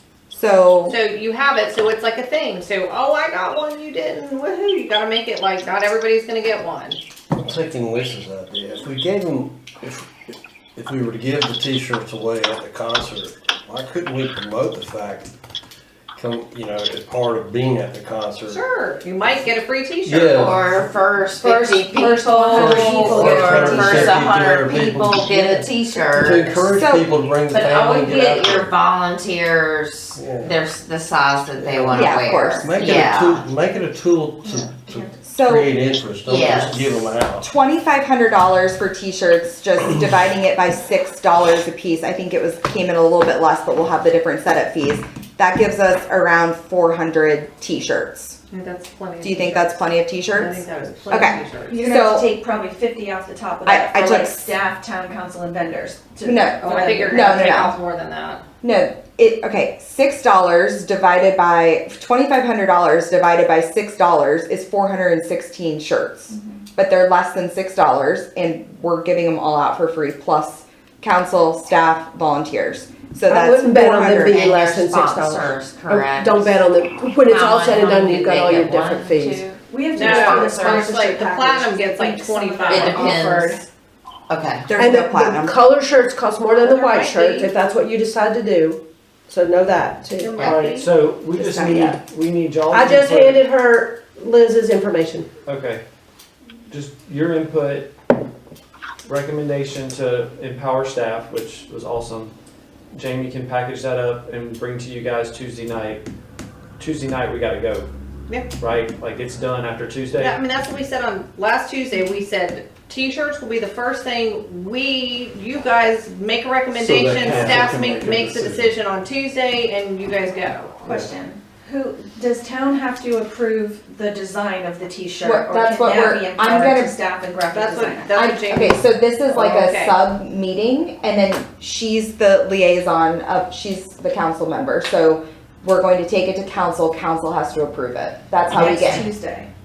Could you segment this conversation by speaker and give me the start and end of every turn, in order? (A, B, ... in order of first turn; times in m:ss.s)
0:00.3-0:00.9 A
0:00.9-0:07.0 B
0:07.3-0:10.1 C
0:10.8-0:15.3 C
0:16.2-0:18.6 C
0:18.4-0:20.7 B
0:20.0-0:20.7 C
0:20.4-0:26.7 D
0:21.4-0:23.8 E
0:21.9-0:22.3 F
0:22.5-0:28.7 C
0:22.8-0:23.7 B
0:23.1-0:24.1 F
0:26.7-0:27.1 A
0:27.5-0:33.4 D
0:30.2-0:30.6 C
0:31.6-0:37.4 C
0:31.9-0:32.7 A
0:35.2-0:35.7 A
0:36.2-0:36.9 D
0:37.4-0:48.4 A
0:48.5-0:51.9 B
0:49.2-0:52.3 A
0:51.7-0:57.4 E
0:53.6-0:54.5 A
0:56.2-0:57.7 A
0:56.6-0:58.4 B
0:58.6-1:14.5 A
1:13.3-1:20.9 F
1:14.1-1:16.6 D
1:17.2-1:19.6 D
1:19.7-1:23.6 E
1:19.9-1:23.6 B
1:20.1-1:20.7 D
1:22.7-1:23.6 D
1:24.3-1:24.6 D
1:24.7-1:25.6 A
1:24.7-1:30.5 F
1:26.5-1:27.5 B
1:30.2-1:30.9 B
1:30.4-1:33.4 G
1:31.3-1:32.0 A
1:32.7-1:35.3 F
1:35.4-1:35.8 G
1:36.7-1:37.9 G
1:39.0-1:42.3 G
1:42.9-1:46.0 G
1:46.8-1:47.9 G
1:48.6-1:50.3 G
1:50.2-2:01.1 B
1:56.7-1:58.7 C
1:57.2-1:57.8 G
2:00.9-2:08.2 E
2:05.2-2:07.0 A
2:07.5-2:10.0 B
2:08.2-2:19.1 A
2:18.5-2:19.5 E